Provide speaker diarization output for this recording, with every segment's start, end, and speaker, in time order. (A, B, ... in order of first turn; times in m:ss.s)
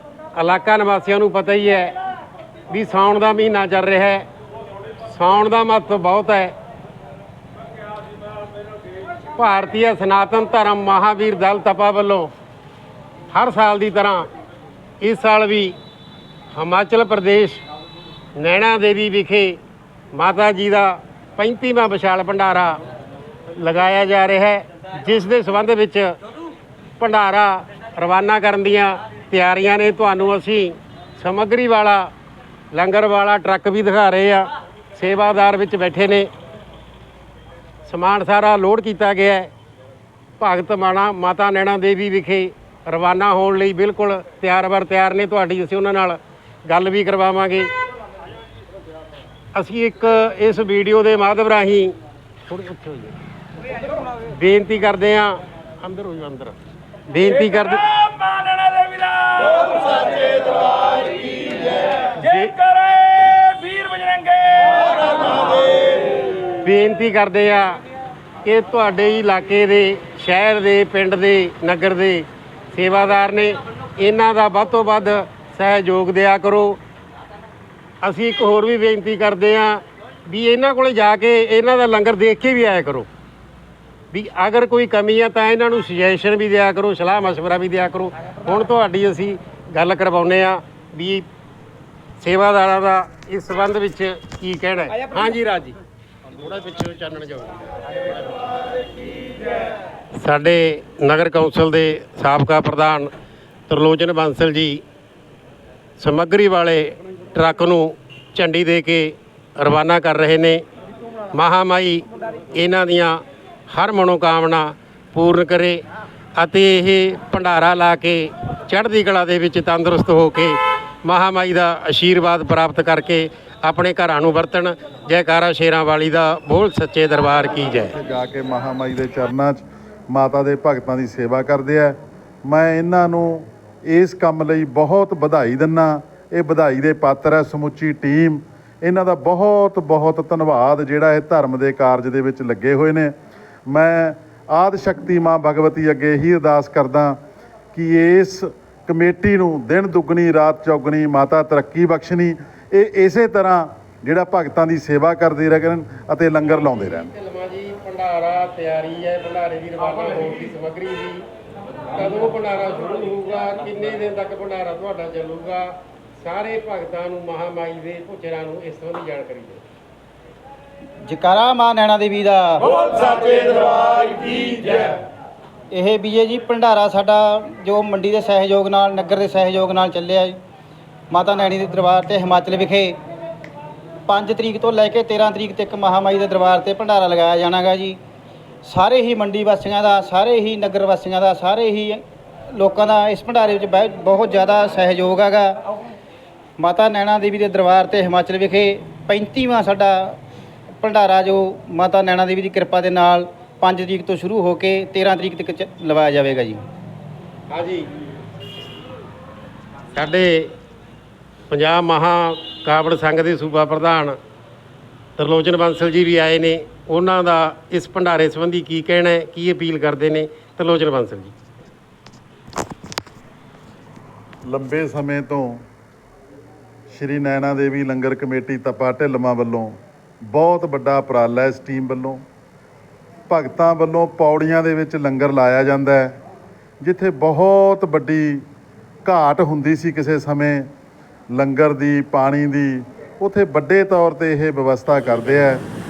0:00.4-0:01.9 A
0:02.7-0:04.3 A
0:05.0-0:06.5 A
0:09.4-0:12.3 A
0:13.3-0:14.3 A
0:15.0-0:15.8 A
0:16.5-0:17.6 A
0:18.4-0:19.6 A
0:20.1-0:22.8 A
0:23.5-0:26.2 A
0:27.0-0:32.1 A
0:32.7-0:36.3 A
0:37.8-0:39.5 A
0:40.4-0:47.7 A
0:49.6-0:51.9 A
0:52.5-0:53.2 A
0:54.3-0:56.6 A
0:57.1-0:58.2 A
0:58.1-1:01.8 B
1:02.1-1:02.7 A
1:02.6-1:05.7 B
1:06.5-1:07.8 A
1:08.4-1:16.8 A
1:18.0-1:23.1 A
1:24.1-1:31.3 A
1:32.2-1:35.8 A
1:36.3-1:37.6 A
1:40.2-1:43.1 A
1:43.7-1:44.8 A
1:46.0-1:50.6 A
1:51.3-1:55.8 A
1:56.4-2:08.0 A
2:07.6-2:23.1 C
2:23.7-2:27.2 C
2:27.7-2:37.1 C
2:36.5-2:41.2 A
2:41.9-2:49.6 A
2:51.1-2:55.0 D
2:53.3-2:53.8 B
2:55.7-3:00.4 D
3:01.1-3:03.0 D
3:04.1-3:08.0 D
3:08.7-3:12.0 D
3:12.5-3:15.6 D
3:16.6-3:20.2 D
3:20.8-3:26.6 D
3:27.5-3:27.9 A
3:29.9-3:30.5 A
3:31.5-3:34.2 A
3:35.2-3:41.3 A
3:44.5-3:45.6 C
3:46.9-3:49.8 C
3:50.3-3:52.2 C
3:53.3-3:56.2 C
3:56.8-3:58.4 C
3:59.0-4:00.7 C
4:01.3-4:05.6 C